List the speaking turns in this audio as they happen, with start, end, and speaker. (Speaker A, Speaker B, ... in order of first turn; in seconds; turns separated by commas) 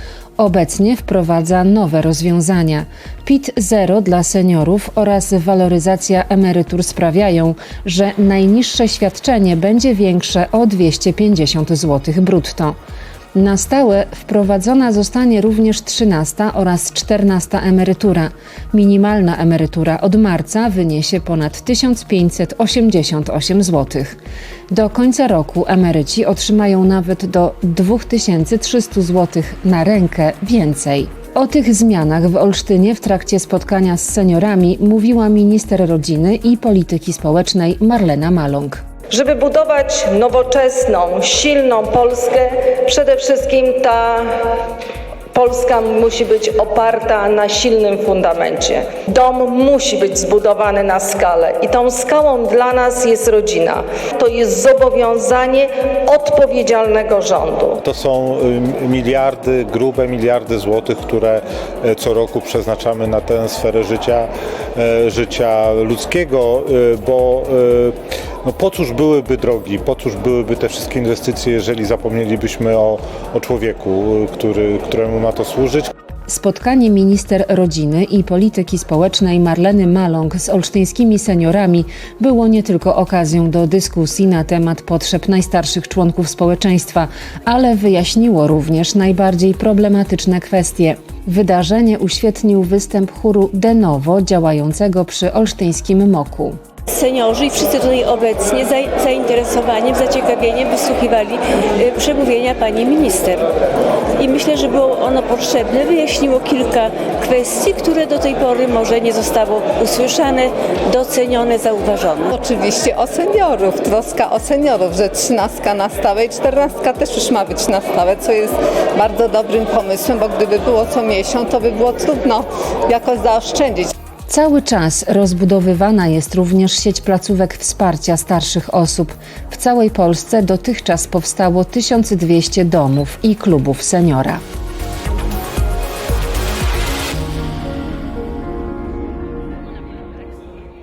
Speaker A: 0.4-12.8, Speaker A: 13.3-24.2, Speaker A: 24.7-38.8, Speaker B: 39.1-44.3, Speaker B: 45.3-57.8, Speaker C: 57.8-75.9, Speaker A: 76.3-96.6, Speaker D: 96.9-103.5, Speaker D: 104.2-112.3, Speaker E: 112.3-123.9, Speaker A: 124.3-134.4